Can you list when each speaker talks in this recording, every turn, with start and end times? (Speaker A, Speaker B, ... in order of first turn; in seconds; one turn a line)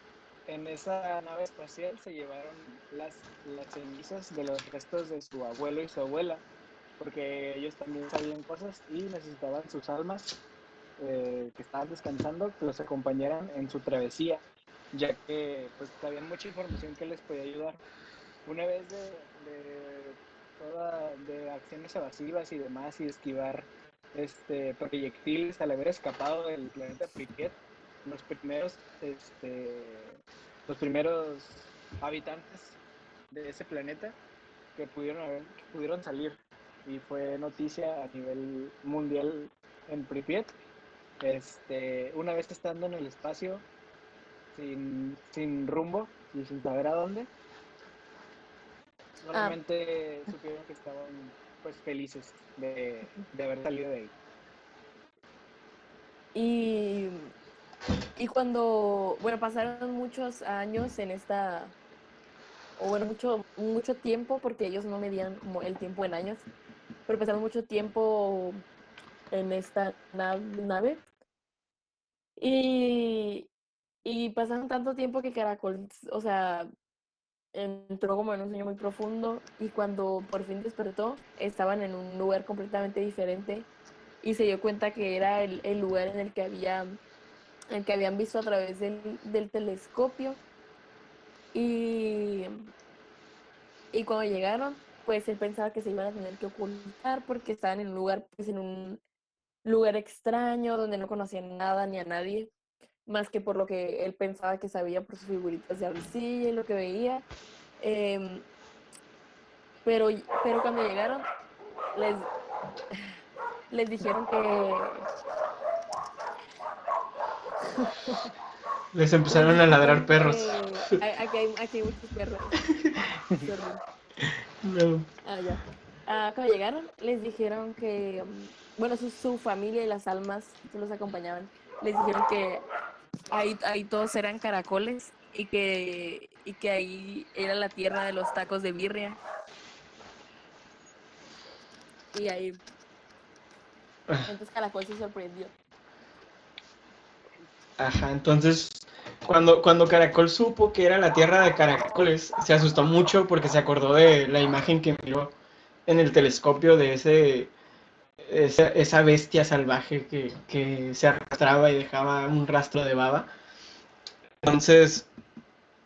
Speaker A: 0.5-6.4
Speaker A: 7.0-10.3
Speaker A: 11.0-17.8
Speaker A: 18.4-32.8
Speaker A: 33.3-34.2
Speaker A: 34.7-40.5
Speaker A: 41.2-43.6
Speaker A: 44.5-47.3
Speaker A: 49.2-54.1
Speaker B: 56.3-57.3
Speaker B: 58.1-61.7
Speaker B: 62.8-66.4
Speaker B: 67.1-68.6
Speaker B: 69.3-71.0
Speaker B: 72.4-73.5
Speaker B: 74.0-76.7
Speaker B: 77.5-83.7
Speaker B: 84.2-87.0
Speaker B: 87.7-90.4
Speaker B: 91.5-92.7
Speaker B: 93.9-99.0
Speaker B: 99.6-102.5
Speaker B: 103.0-107.2
Speaker B: 107.8-108.5
Speaker B: 109.8-111.2
Speaker B: 111.9-112.3
Speaker B: 113.7-115.1
Speaker B: 117.7-118.3
Speaker C: 118.9-121.0
Speaker B: 119.3-122.6
Speaker C: 122.7-123.0
Speaker B: 123.4-123.8
Speaker C: 124.6-125.1
Speaker B: 125.2-132.6
Speaker B: 133.3-139.2
Speaker B: 142.1-142.6
Speaker B: 144.3-145.5
Speaker C: 147.8-155.3
Speaker C: 155.9-157.5
Speaker C: 158.2-163.3
Speaker C: 164.4-165.1